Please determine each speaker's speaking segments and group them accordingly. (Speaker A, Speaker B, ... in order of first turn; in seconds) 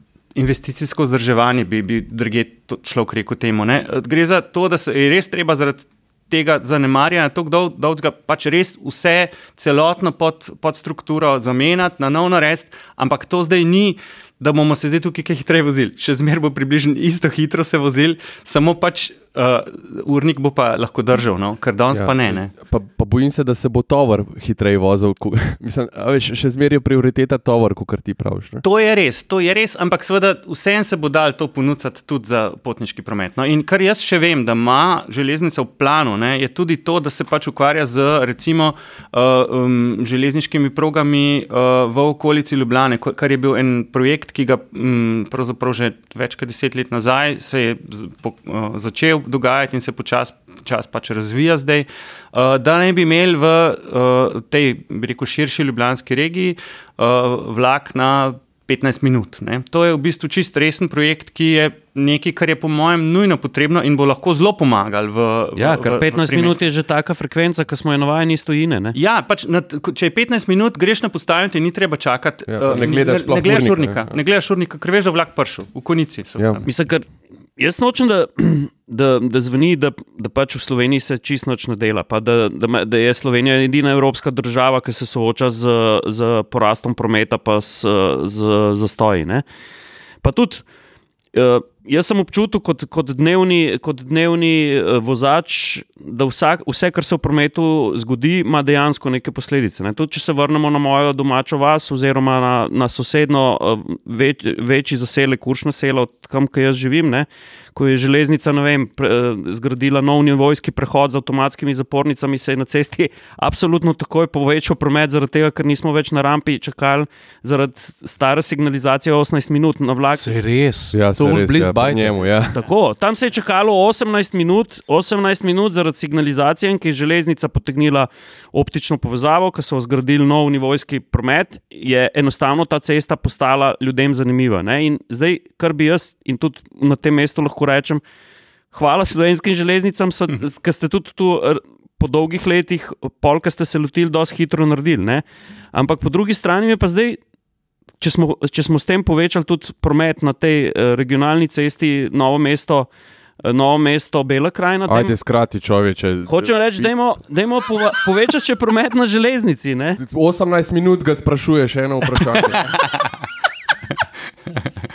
Speaker A: 0.3-22.5, 28.6-66.6, 68.9-76.7, 162.8-163.1
Speaker B: 21.9-28.6, 72.5-74.1, 120.9-122.6, 154.9-156.9, 160.0-162.6
Speaker C: 65.5-69.0, 76.7-77.1, 77.6-89.4, 90.2-90.6, 91.3-120.3, 122.5-138.0, 138.7-147.2, 148.0-152.9, 153.4-155.1, 156.3-160.0
Speaker D: 120.1-122.2